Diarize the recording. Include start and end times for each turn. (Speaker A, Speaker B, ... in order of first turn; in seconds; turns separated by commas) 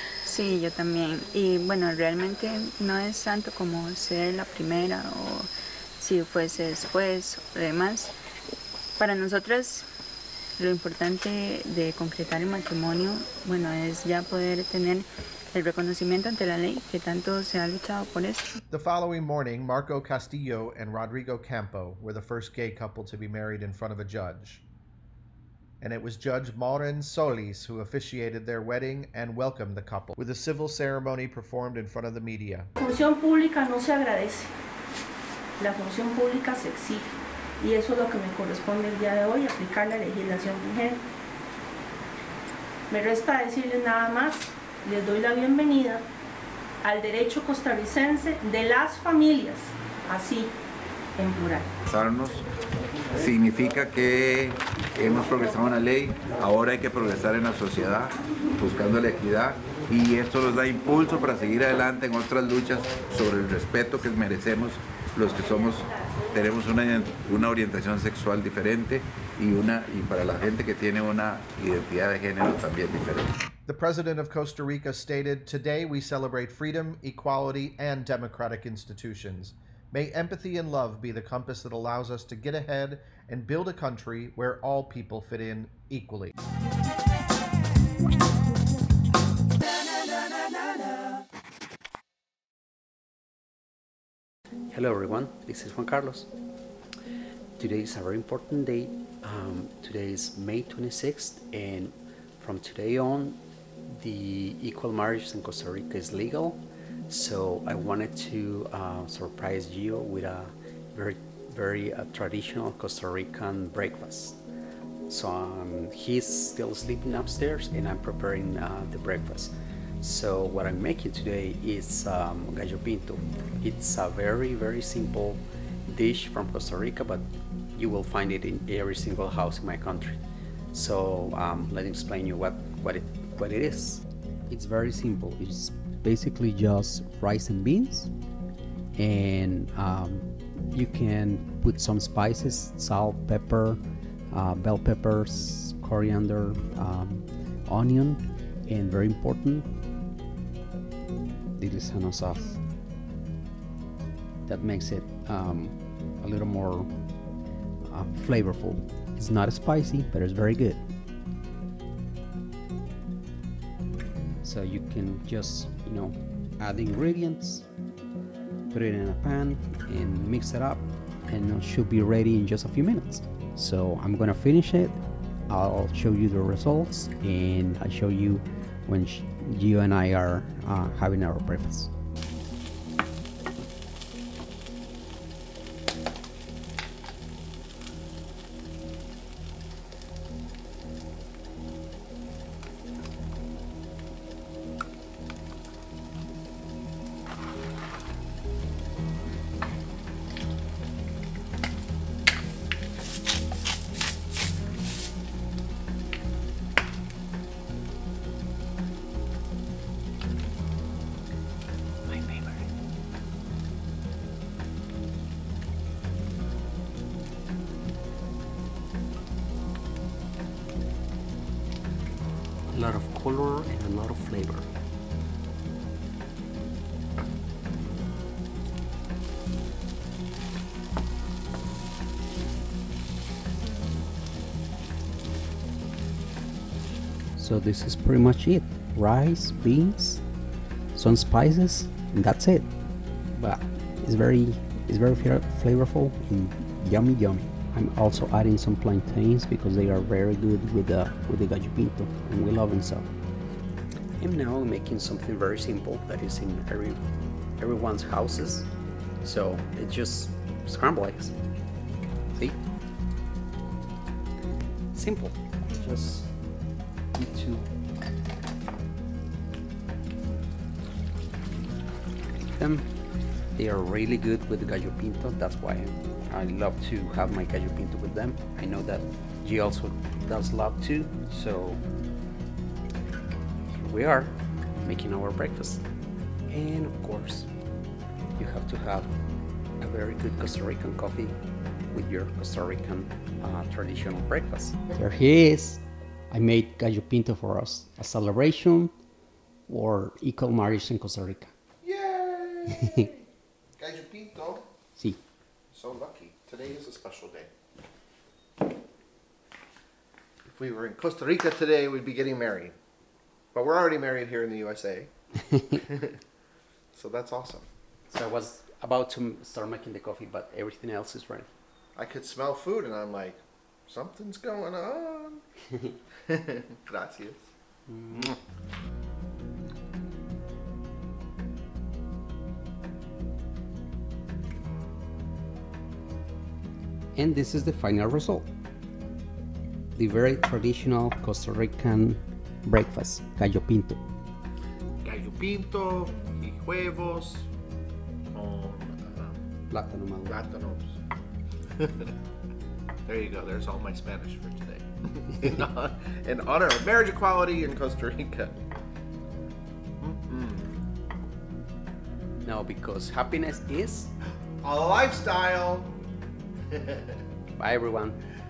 Speaker A: 0.2-8.1, Speaker A: 9.0-9.8, Speaker A: 10.6-18.5, Speaker B: 18.7-24.6, Speaker B: 25.8-32.7, Speaker C: 32.8-34.5, Speaker C: 35.6-41.0, Speaker C: 42.9-46.0, Speaker C: 46.8-50.5, Speaker C: 51.2-51.7, Speaker D: 51.9-52.5, Speaker D: 53.1-73.3, Speaker B: 73.7-86.3, Speaker E: 94.7-96.3, Speaker E: 97.5-114.4, Speaker E: 115.1-130.2, Speaker E: 130.7-138.1, Speaker E: 139.0-143.8, Speaker E: 144.3-149.7, Speaker E: 151.6-152.6, Speaker E: 154.4-156.9, Speaker E: 157.9-160.8, Speaker E: 164.4-167.7, Speaker E: 168.7-181.9, Speaker E: 212.1-212.6, Speaker E: 222.7-224.7, Speaker E: 237.3-240.2, Speaker E: 240.9-242.7, Speaker E: 243.3-253.1, Speaker E: 254.2-257.0, Speaker E: 257.6-258.7, Speaker E: 259.2-261.3, Speaker E: 262.3-262.6, Speaker E: 264.9-266.3, Speaker E: 267.1-267.7, Speaker E: 272.5-272.9, Speaker E: 273.6-281.8, Speaker E: 283.7-285.8, Speaker E: 286.5-287.5, Speaker E: 288.4-289.1, Speaker E: 289.8-291.4, Speaker E: 291.9-298.9, Speaker E: 299.7-301.5, Speaker B: 301.8-304.6, Speaker B: 305.7-307.5, Speaker B: 310.5-312.8, Speaker B: 313.5-315.1, Speaker B: 315.7-316.1, Speaker B: 316.9-317.7, Speaker E: 318.1-321.5, Speaker B: 321.9-325.4, Speaker B: 326.3-327.5, Speaker E: 327.9-328.3, Speaker B: 328.1-328.4, Speaker E: 337.1-338.5, Speaker E: 339.9-344.0, Speaker B: 345.0-347.5, Speaker B: 348.3-349.4, Speaker E: 349.7-350.4, Speaker B: 350.3-351.0, Speaker B: 351.8-352.1, Speaker B: 353.1-358.6, Speaker B: 360.0-360.8, Speaker E: 362.4-364.1, Speaker B: 364.6-365.9, Speaker B: 366.7-367.2, Speaker E: 367.6-368.2